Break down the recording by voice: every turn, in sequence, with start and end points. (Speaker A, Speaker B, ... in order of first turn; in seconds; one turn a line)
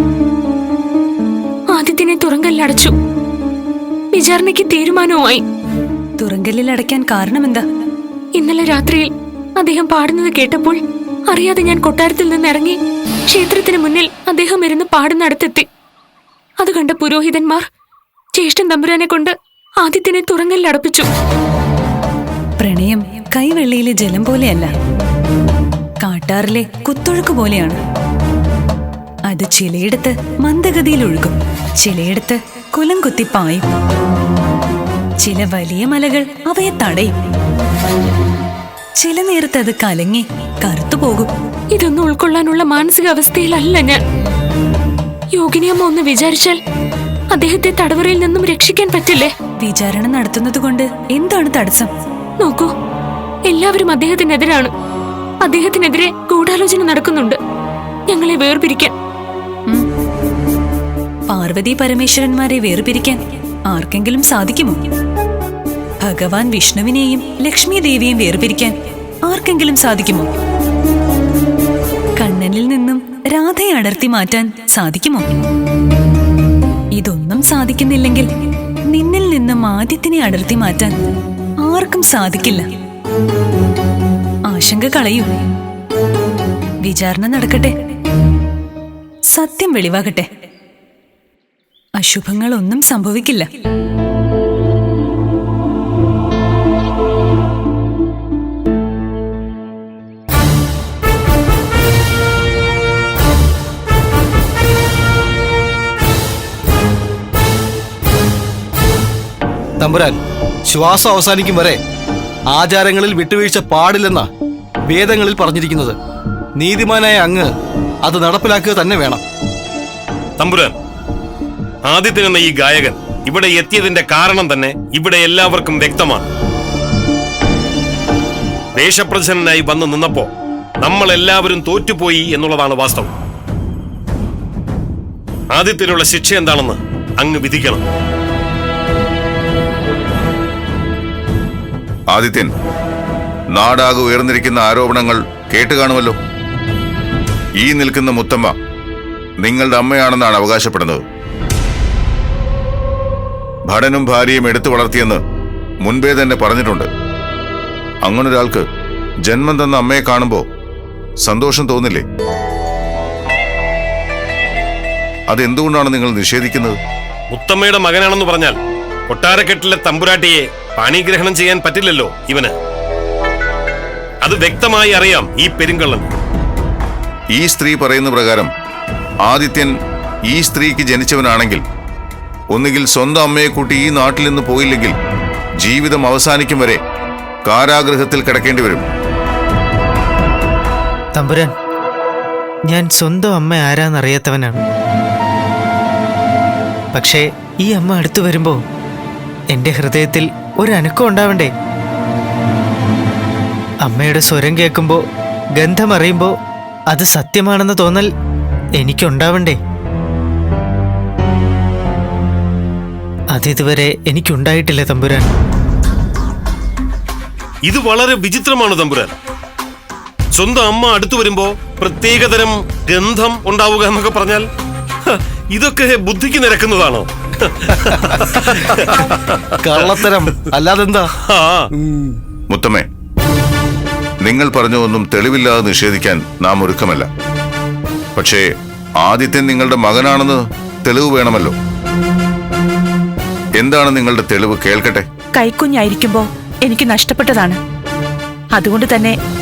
Speaker A: 1.7-2.9
Speaker A: 4.1-5.4
Speaker B: 6.2-7.6
Speaker A: 8.4-15.7
Speaker A: 16.6-17.6
Speaker A: 18.4-21.1
Speaker B: 22.6-24.7
Speaker B: 26.0-27.8
Speaker B: 29.3-33.7
Speaker B: 35.2-37.1
Speaker B: 39.0-41.3
Speaker A: 41.7-44.0
Speaker A: 45.4-46.6
Speaker A: 47.3-49.3
Speaker B: 49.6-51.9
Speaker A: 52.4-52.7
Speaker A: 53.5-54.7
Speaker A: 55.4-57.4
Speaker A: 58.1-58.9
Speaker B: 61.3-64.9
Speaker B: 66.0-70.3
Speaker B: 72.2-75.4
Speaker B: 76.9-78.3
Speaker B: 78.9-81.1
Speaker B: 81.6-82.7
Speaker B: 84.5-85.4
Speaker B: 86.8-87.7
Speaker B: 89.3-90.3
Speaker B: 92.0-93.5
Speaker C: 109.8-111.8
Speaker C: 112.5-114.3
Speaker C: 114.9-116.0
Speaker C: 116.6-117.5
Speaker C: 118.0-119.2
Speaker D: 120.4-120.8
Speaker D: 121.9-126.2
Speaker D: 128.8-130.3
Speaker D: 130.8-133.1
Speaker D: 135.5-137.8
Speaker E: 142.1-142.5
Speaker E: 143.5-146.2
Speaker E: 147.6-148.5
Speaker E: 149.4-151.0
Speaker E: 153.7-155.2
Speaker E: 155.8-156.9
Speaker E: 158.0-158.6
Speaker E: 159.2-160.5
Speaker E: 161.2-162.0
Speaker E: 165.3-166.8
Speaker D: 167.3-168.6
Speaker D: 169.1-172.5
Speaker D: 174.2-176.1
Speaker E: 177.3-178.5
Speaker E: 179.3-179.7
Speaker E: 180.3-181.6
Speaker E: 182.5-184.9
Speaker E: 185.6-186.8
Speaker E: 187.4-188.8
Speaker F: 191.2-191.5
Speaker F: 192.7-194.6
Speaker F: 196.9-198.6
Speaker F: 199.5-201.5
Speaker F: 203.8-205.0
Speaker F: 205.6-206.3
Speaker F: 206.9-208.1
Speaker F: 208.8-209.6
Speaker F: 213.3-215.3
Speaker D: 217.7-219.2
Speaker D: 220.3-224.5
Speaker D: 225.1-230.1
Speaker C: 229.6-231.1
Speaker D: 231.2-231.7
Speaker E: 232.5-232.9
Speaker E: 234.2-237.1
Speaker E: 238.2-238.4
Speaker E: 239.0-241.6
Speaker E: 243.6-245.1
Speaker G: 245.3-247.6
Speaker G: 248.5-249.1